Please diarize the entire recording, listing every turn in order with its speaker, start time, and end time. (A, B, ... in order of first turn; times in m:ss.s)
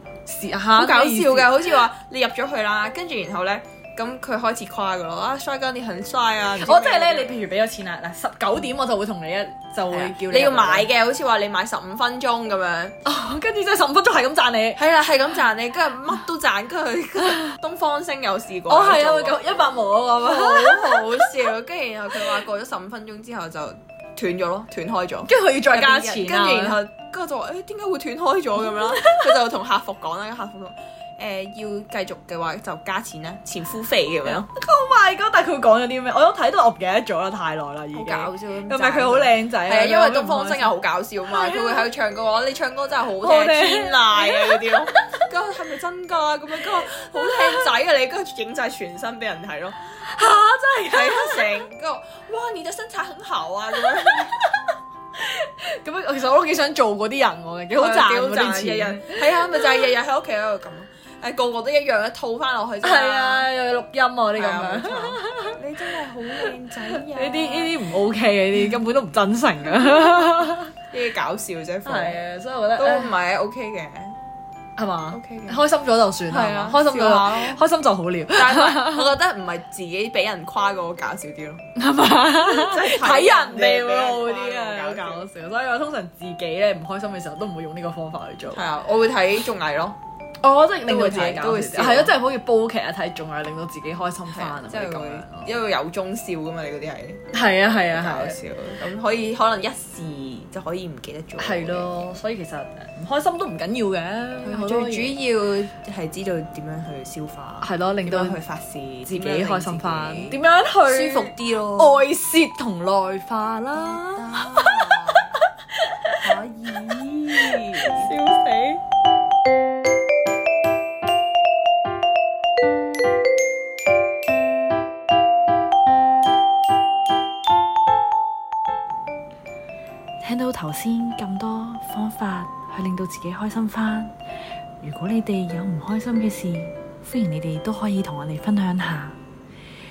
0:00.2-0:01.8 A
0:00.7-0:07.3 B
0:06.6-0:10.9 A
0:09.9-0:13.0 B
0:13.0-0:14.8 A
0:14.8-0:19.4 B
0:17.2-0:17.5 A
0:18.7-0:21.5 A
0:20.2-0:34.5 B
0:25.3-0:26.8 A
0:28.6-0:29.3 A
0:34.2-0:40.8 A
0:37.9-0:49.8 B
0:41.3-0:41.9 A
0:43.2-0:45.3 A
0:50.0-0:51.6 A
0:50.8-0:54.5 B
0:54.0-0:59.7 A
0:57.7-1:03.5 B
1:02.8-1:05.6 A
1:04.3-1:07.8 B
1:06.9-1:10.7 A
1:09.8-1:10.2 B
1:10.9-1:12.2 B
1:11.8-1:13.1 A
1:12.8-1:14.2 B
1:14.8-1:19.1 A
1:15.1-1:15.6 B
1:16.3-1:17.6 B
1:18.3-1:21.7 B
1:21.8-1:28.6 A
1:22.4-1:25.3 B
1:28.5-1:30.0 B
1:30.4-1:35.6 A
1:30.8-1:32.2 B
1:34.3-1:37.2 B
1:37.3-1:38.4 A
1:37.9-1:42.1 B
1:41.4-1:45.2 A
1:44.4-1:52.0 B
1:47.6-1:48.4 A
1:49.1-1:56.2 A
1:53.7-1:55.3 B
1:56.2-1:58.1 B
1:57.3-1:58.8 A
2:10.2-2:14.1 C
2:14.8-2:19.2 C